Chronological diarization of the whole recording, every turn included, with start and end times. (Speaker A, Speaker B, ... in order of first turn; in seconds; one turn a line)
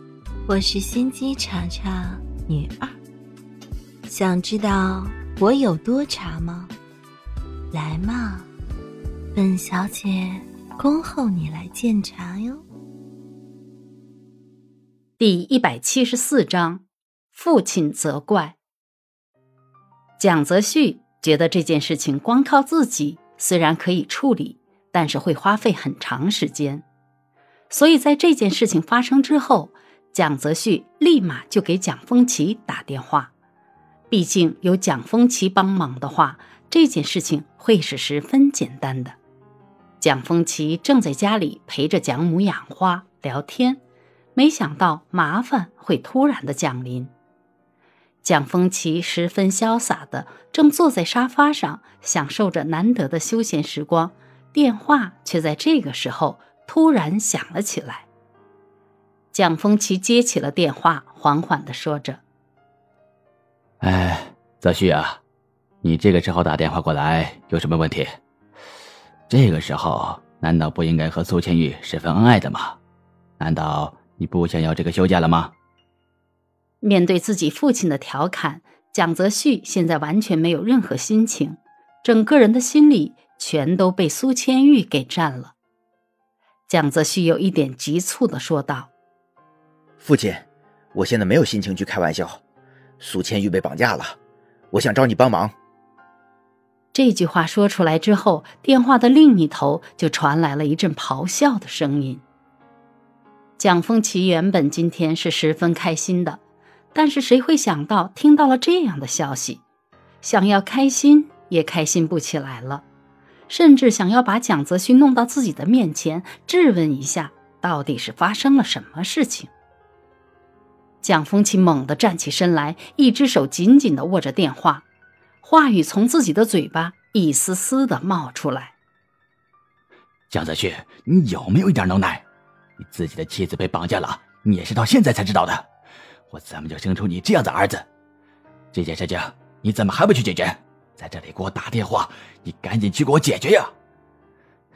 Speaker A: 0.5-3.0
Speaker A: 4.1-6.7
Speaker A: 7.7-8.5
Speaker A: 9.3-12.6
Speaker B: 15.2-18.6
Speaker B: 20.2-26.9
Speaker B: 27.7-33.3
Speaker B: 34.1-39.2
Speaker B: 40.0-43.8
Speaker B: 44.4-47.1
Speaker B: 48.2-58.1
Speaker B: 59.3-62.2
Speaker C: 63.8-65.2
Speaker C: 65.8-68.2
Speaker C: 69.3-72.8
Speaker C: 73.4-75.5
Speaker B: 76.8-85.5
Speaker B: 86.7-88.9
Speaker D: 90.0-92.4
Speaker D: 93.0-94.2
Speaker D: 94.7-95.5
Speaker B: 96.9-102.2
Speaker B: 103.6-106.4
Speaker B: 106.9-109.6
Speaker B: 110.2-112.8
Speaker B: 113.5-119.5
Speaker B: 121.0-124.8
Speaker B: 125.4-128.8
Speaker C: 130.3-132.2
Speaker C: 132.8-135.7
Speaker C: 136.3-137.9
Speaker C: 138.7-143.7